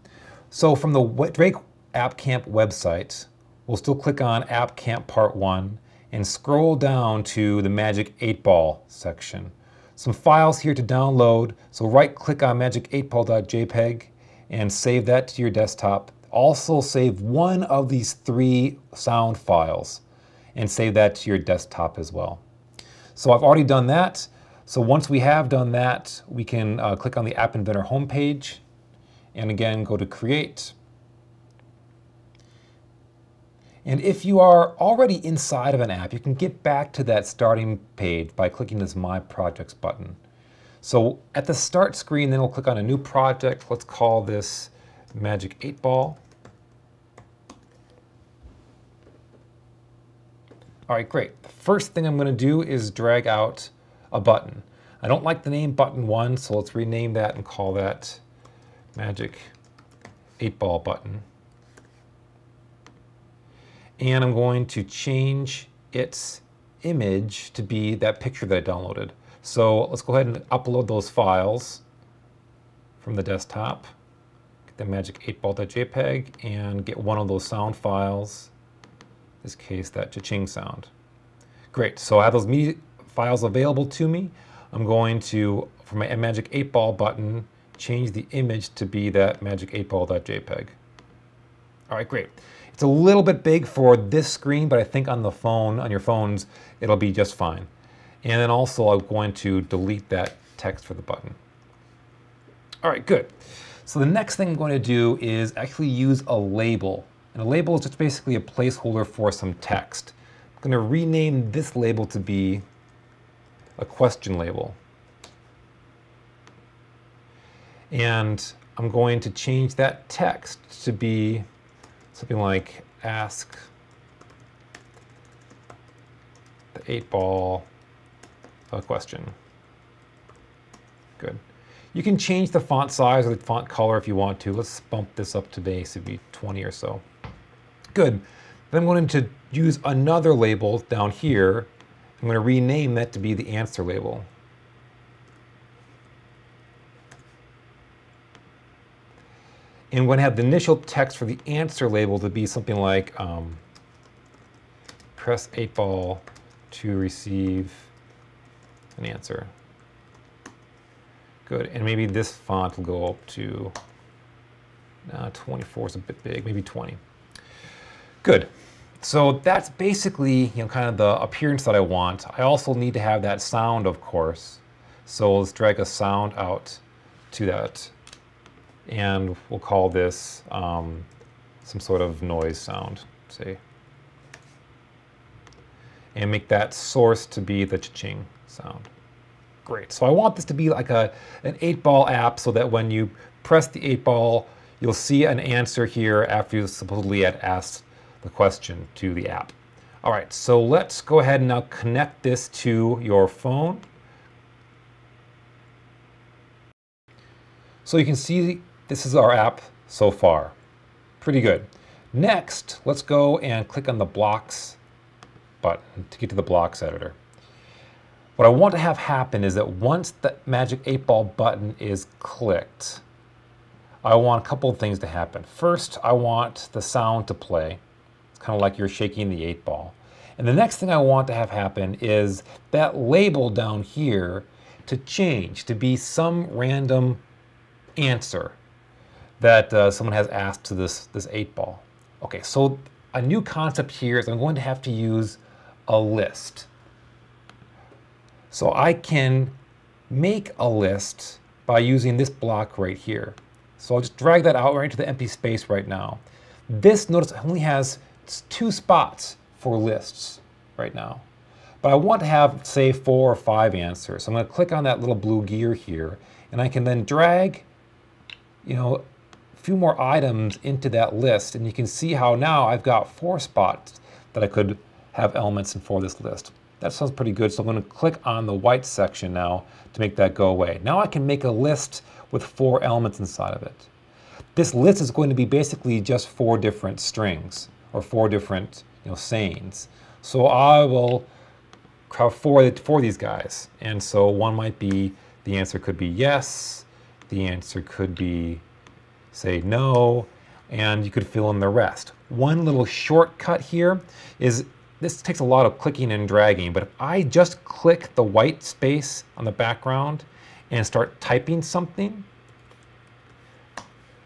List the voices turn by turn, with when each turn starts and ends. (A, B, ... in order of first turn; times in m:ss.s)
0:00.5-0:20.0 A
0:20.5-0:22.4 A
0:23.2-0:28.6 A
0:29.3-0:30.7 A
0:33.8-0:40.2 A
0:40.8-0:46.2 A
0:50.9-0:58.2 A
0:58.9-0:59.5 A
1:00.4-1:01.2 A
1:04.0-1:11.8 A
1:13.0-1:13.9 A
1:14.7-1:18.5 A
1:19.4-1:20.9 A
1:21.7-1:30.8 A
1:31.9-1:37.7 A
1:38.2-1:41.4 A
1:42.8-1:43.3 A
1:43.8-1:52.6 A
1:53.8-1:54.8 A
1:57.9-2:01.4 A
2:02.1-2:03.7 A
2:06.7-2:07.7 A
2:08.7-2:09.3 A
2:11.9-2:17.0 A
2:17.9-2:24.3 A
2:29.9-2:33.6 A
2:35.2-2:37.9 A
2:39.0-2:39.5 A
2:41.4-2:43.7 A
2:45.1-2:47.0 A
2:48.2-2:48.5 A
2:49.0-2:57.9 A
2:58.8-3:01.1 A
3:01.6-3:03.6 A
3:06.1-3:08.9 A
3:09.6-3:23.8 A
3:27.8-3:30.5 A
3:31.2-3:34.8 A
3:35.6-3:37.2 A
3:38.4-3:43.0 A
3:44.0-3:47.8 A
3:48.3-3:57.2 A
3:58.0-3:58.6 A
3:59.4-4:06.7 A
4:08.5-4:09.6 A
4:10.1-4:21.2 A
4:21.8-4:27.6 A
4:28.6-4:29.0 A
4:29.6-4:43.9 A
4:44.5-4:51.3 A
4:52.1-4:58.6 A
4:59.3-5:12.3 A